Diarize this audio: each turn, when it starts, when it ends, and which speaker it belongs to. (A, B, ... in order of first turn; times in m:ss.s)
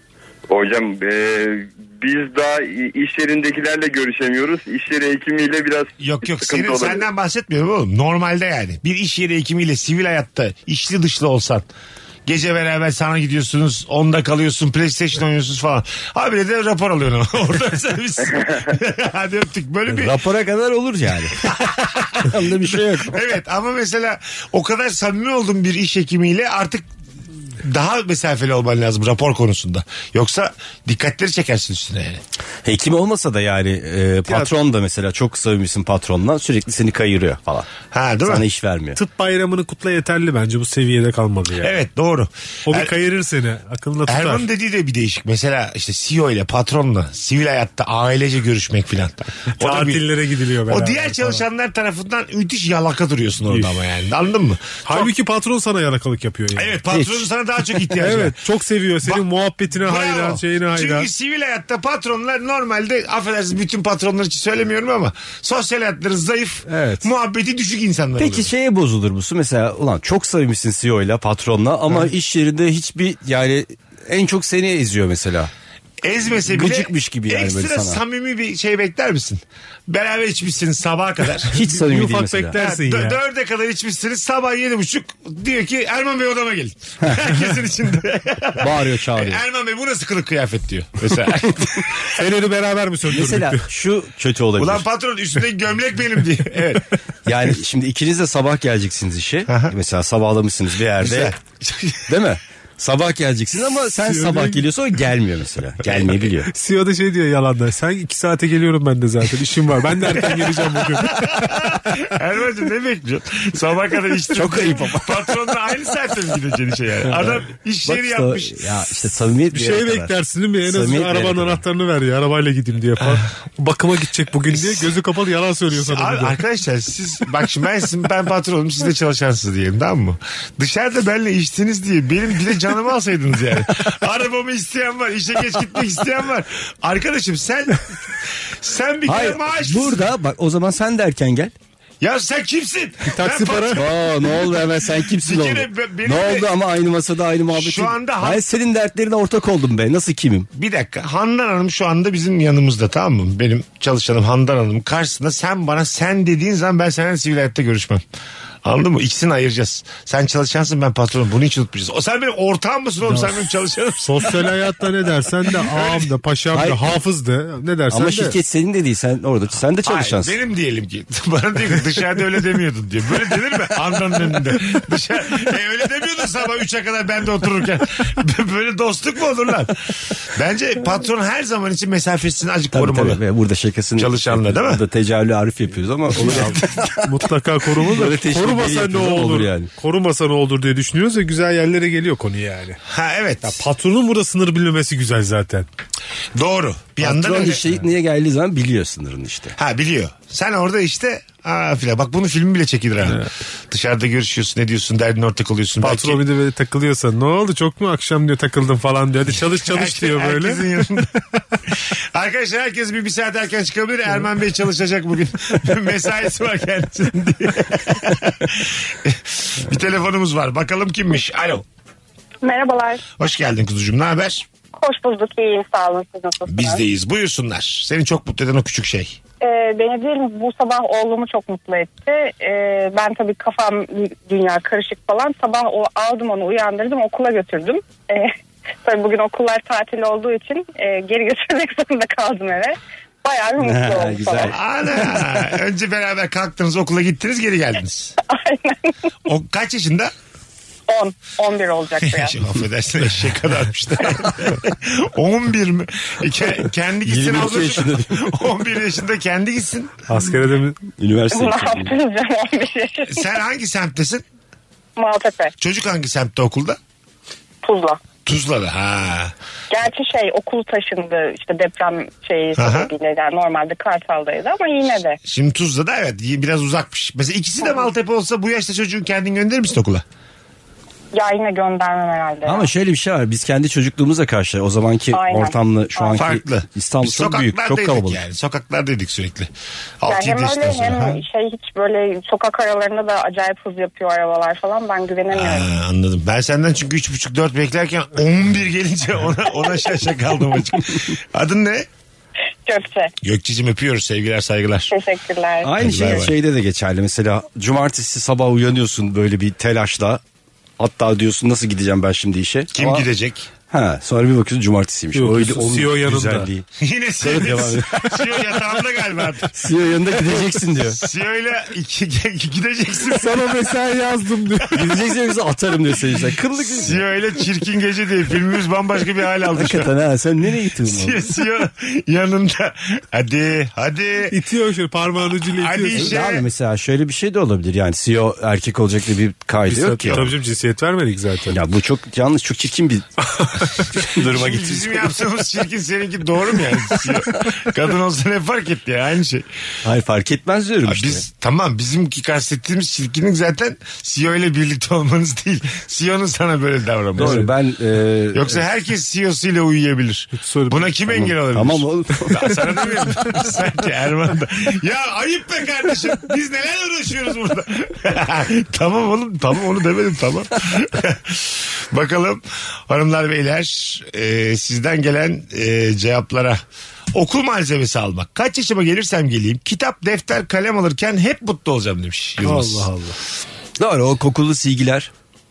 0:00.5-0:07.0 A
0:06.0-0:11.7 B
0:12.3-0:20.2 B
0:19.9-0:21.4 C
0:21.4-0:26.8 B
0:22.2-0:23.2 C
0:27.6-0:32.2 B
0:32.6-0:37.7 C
0:34.3-0:34.5 D
0:37.9-0:38.4 B
0:38.2-0:39.0 C
0:39.0-0:41.8 D
0:41.6-0:42.9 B
0:42.7-0:44.5 D
0:44.1-0:50.0 B
0:49.6-0:51.4 D
0:50.7-0:55.1 B
0:53.5-0:53.8 D
0:54.8-0:56.8 D
0:56.6-0:58.4 B
0:56.9-0:57.3 C
0:58.0-1:01.1 D
0:59.0-1:08.5 B
1:06.7-1:07.0 C
1:08.2-1:15.5 C
1:16.0-1:21.6 B
1:16.5-1:18.0 C
1:21.5-1:22.6 C
1:21.6-1:23.2 D
1:22.5-1:32.1 B
1:28.6-1:29.4 C
1:32.0-1:33.7 D
1:33.1-1:34.9 C
1:34.6-1:36.8 B
1:37.3-1:41.3 C
1:39.5-1:39.8 B
1:41.0-1:42.0 B
1:42.1-1:46.5 C
1:44.0-1:44.6 D
1:46.5-1:51.8 D
1:50.2-1:58.6 B
1:54.3-1:55.4 C
1:57.2-2:01.6 C
1:59.5-2:06.4 D
2:04.5-2:04.9 B
2:05.7-2:20.0 B
2:19.1-2:21.5 C
2:22.0-2:23.9 B
2:23.0-2:23.8 D
2:23.7-2:30.5 C
2:25.2-2:26.5 B
2:27.5-2:28.6 B
2:30.5-2:38.0 B
2:38.6-2:44.3 B
2:43.1-2:43.5 C
2:44.0-2:48.4 D
2:45.6-2:46.1 B
2:46.5-2:46.8 C
2:47.9-2:50.4 C
2:49.8-3:03.2 B
3:02.7-3:07.0 C
3:04.0-3:04.8 B
3:06.2-3:12.8 D
3:06.2-3:06.6 B
3:07.8-3:09.7 C
3:12.9-3:13.6 B
3:13.5-3:15.7 D
3:16.4-3:17.6 B
3:17.0-3:19.6 C
3:19.6-3:26.2 B
3:25.8-3:30.7 D
3:29.6-3:31.1 B
3:31.7-3:41.6 B
3:42.4-3:43.0 E
3:43.2-3:44.5 B
3:44.8-3:46.8 E
3:46.5-3:49.2 B
3:49.4-4:04.6 E
4:03.6-4:04.6 C
4:04.5-4:08.2 B
4:08.2-4:08.9 E
4:09.3-4:10.1 B
4:10.9-4:12.4 E
4:12.0-4:20.0 B
4:17.0-4:18.3 C
4:20.1-4:20.8 D
4:21.0-4:22.0 C
4:21.3-4:23.3 E
4:23.1-4:24.2 B
4:25.0-4:25.5 E
4:25.6-4:26.8 B
4:27.6-4:28.0 E
4:28.2-4:29.3 B
4:29.7-4:35.2 E
4:32.6-4:32.9 B
4:35.3-4:40.0 B
4:41.1-4:42.7 E
4:42.4-4:48.2 C
4:45.1-4:46.2 E
4:46.2-4:51.2 B
4:50.1-4:55.7 E
4:55.3-5:01.9 B
5:02.7-5:03.1 E
5:03.2-5:04.9 B
5:04.9-5:06.2 E
5:05.6-5:10.2 C
5:05.8-5:06.3 B
5:10.8-5:13.1 C
5:12.7-5:13.5 B
5:13.7-5:16.7 C
5:15.1-5:16.5 D
5:16.8-5:19.6 B
5:17.2-5:18.1 C
5:19.5-5:21.0 C
5:20.3-5:23.5 B
5:23.1-5:24.9 D
5:24.7-5:27.0 C
5:26.7-5:29.9 B
5:29.5-5:31.2 C
5:30.8-5:34.4 B
5:34.3-5:36.2 D
5:35.4-5:36.5 B
5:35.9-5:40.3 C
5:39.7-5:41.6 D
5:41.5-5:43.1 C
5:43.4-5:43.9 D
5:43.8-5:45.1 C
5:44.1-5:49.5 B
5:49.8-5:51.2 C
5:50.9-5:57.5 B
5:57.2-5:57.5 D
5:57.2-5:58.6 C
5:58.3-6:16.6 B
6:00.3-6:00.9 D
6:01.1-6:02.5 C
6:17.1-6:22.9 B
6:22.4-6:23.2 D
6:23.8-6:25.1 C